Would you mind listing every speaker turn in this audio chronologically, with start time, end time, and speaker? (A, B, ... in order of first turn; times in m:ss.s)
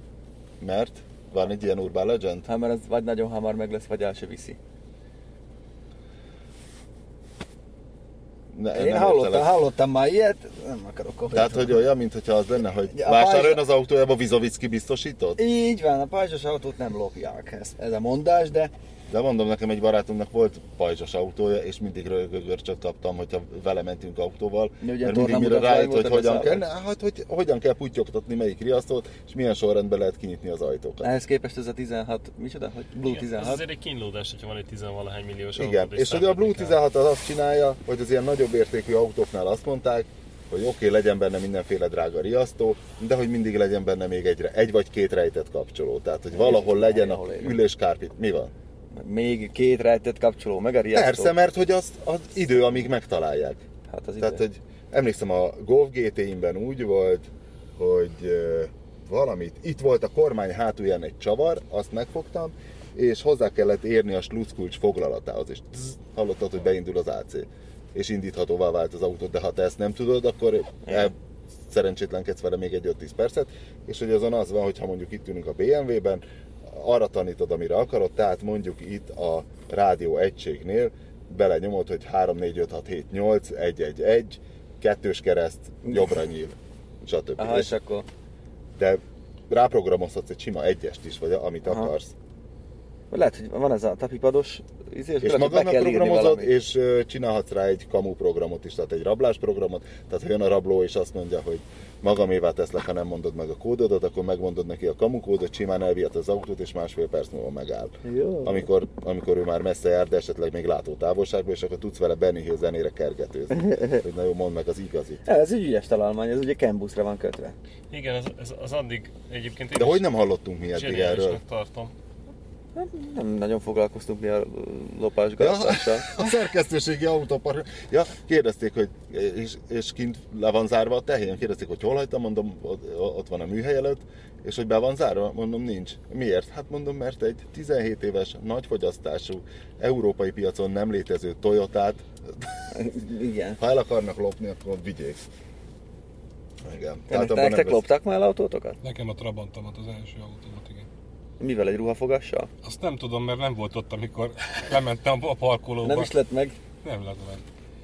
0:00.6-0:02.5 A
0:02.4-0:04.6 B
0:08.5-0:09.6 A
0:08.7-0:11.8 B
0:11.3-0:15.4 A
0:12.9-0:13.6 B
0:15.4-0:18.7 B
0:19.1-0:31.1 A
0:24.8-0:26.6 B
0:31.0-0:33.6 B
0:33.1-0:36.8 C
0:35.6-0:48.5 A
0:46.3-0:47.6 B
0:49.0-0:51.3 B
0:50.9-0:53.6 A
0:53.9-0:54.4 B
0:54.2-1:11.2 A
1:11.7-1:27.8 A
1:27.4-1:28.1 B
1:28.8-1:32.1 A
1:31.6-1:31.9 B
1:33.1-1:36.5 B
1:35.2-1:55.2 A
1:48.0-1:48.7 B
1:53.5-1:54.0 B
1:55.2-1:57.6 B
1:57.9-2:00.1 C
1:59.8-2:01.4 A
2:00.7-2:01.9 C
2:02.8-2:06.2 B
2:05.4-2:22.6 A
2:22.7-2:23.6 B
2:23.6-2:25.2 A
2:26.6-2:27.8 A
2:27.1-2:28.8 B
2:28.8-2:30.9 D
2:31.4-2:32.5 B
2:32.6-2:36.1 D
2:35.8-2:36.6 B
2:36.8-2:37.4 D